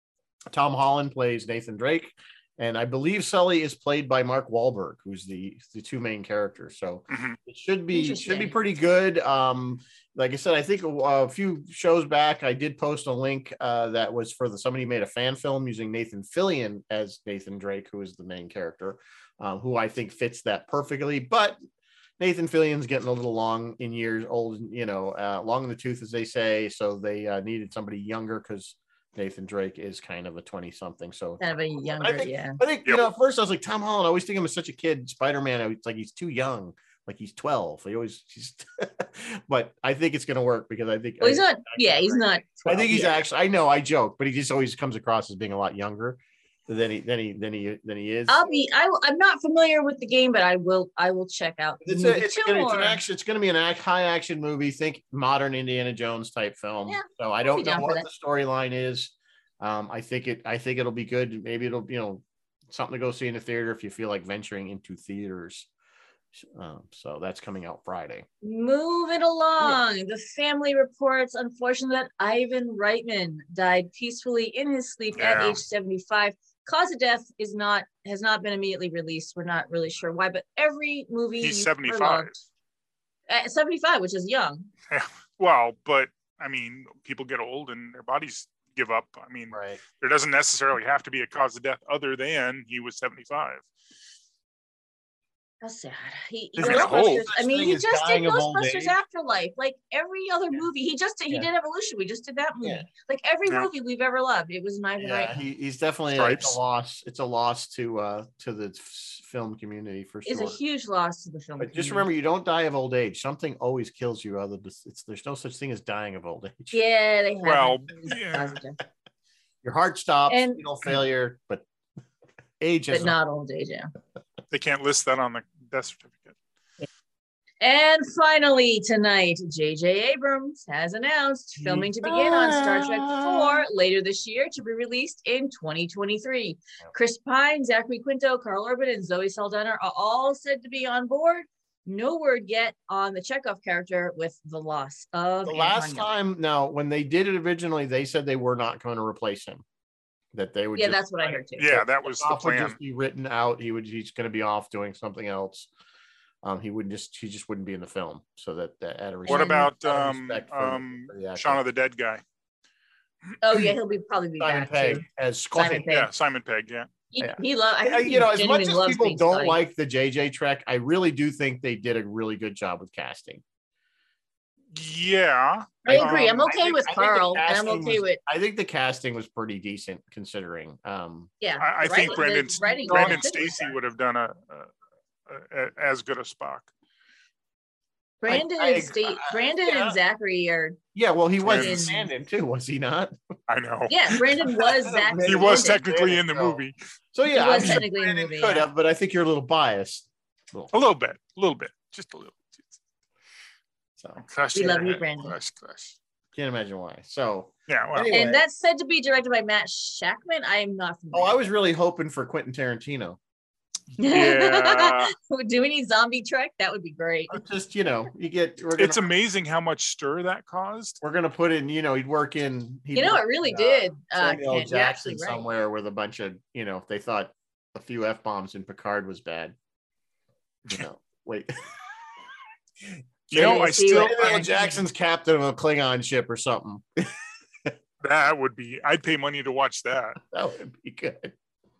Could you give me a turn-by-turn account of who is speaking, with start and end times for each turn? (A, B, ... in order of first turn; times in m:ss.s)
0:00.5-0:21.6 A
0:07.1-0:07.4 B
0:07.9-0:08.6 C
0:22.2-0:31.4 A
0:31.4-0:32.6 C
0:32.0-0:48.5 A
0:41.2-0:43.2 C
0:48.3-0:53.0 C
0:51.8-1:05.7 A
0:56.9-0:58.0 C
1:06.3-1:08.2 A
1:08.4-1:22.3 C
1:15.2-1:15.6 B
1:21.4-1:22.3 B
1:23.3-1:24.7 C
1:24.9-1:33.6 B
1:29.5-1:29.8 A
1:35.6-1:45.4 C
1:36.6-1:39.0 A
1:36.6-1:37.2 B
1:45.0-1:50.6 A
1:46.1-1:46.6 B
1:50.2-1:52.1 C
1:51.6-1:56.8 A
1:56.7-1:58.8 C
1:57.4-1:58.6 B
1:59.6-2:01.6 A
2:00.3-2:00.6 C
2:02.6-2:03.1 A
2:02.9-2:03.9 C
2:04.5-2:06.3 B
2:07.6-2:26.1 C
2:11.6-2:13.6 A
2:25.4-2:29.6 A
2:30.3-2:35.7 A
2:30.7-2:31.8 C
2:31.6-2:32.8 B
2:36.4-2:41.6 A
2:39.2-2:39.7 C
2:39.3-2:42.2 B
2:43.4-2:46.1 C
2:44.4-2:45.8 A
2:45.9-2:46.9 B
2:47.1-2:49.6 C
2:47.2-2:53.4 A
2:54.7-2:56.2 B
2:55.8-2:58.2 C
2:55.8-3:01.3 A
3:01.4-3:03.7 C
3:01.6-3:04.7 B
3:02.1-3:03.7 A
3:05.3-3:06.7 B
3:08.2-3:10.8 C
3:08.2-3:10.0 A
3:10.9-3:13.1 A
3:11.4-3:12.0 B
3:11.5-3:11.9 C
3:13.5-3:14.2 B
3:13.9-3:15.8 C
3:14.5-3:16.6 A
3:15.2-3:16.7 B
3:17.1-3:20.7 A
3:17.3-3:18.7 C
3:17.6-3:17.8 B
3:20.7-3:22.7 B
3:24.0-3:24.8 A
3:24.2-3:26.0 B
3:24.5-3:25.4 C
3:26.3-3:28.4 A
3:27.7-3:28.1 B
3:28.1-3:31.4 C
3:31.1-3:33.2 A
3:33.9-3:35.1 B
3:34.0-3:37.4 C
3:37.3-3:39.1 A
3:38.8-3:41.0 B
3:41.0-3:49.5 A
3:42.9-3:45.5 C
3:50.7-3:51.5 A
3:53.3-3:54.1 B
3:53.3-3:57.1 A
3:53.3-3:54.8 C
3:58.0-4:00.2 B
4:00.2-4:01.3 A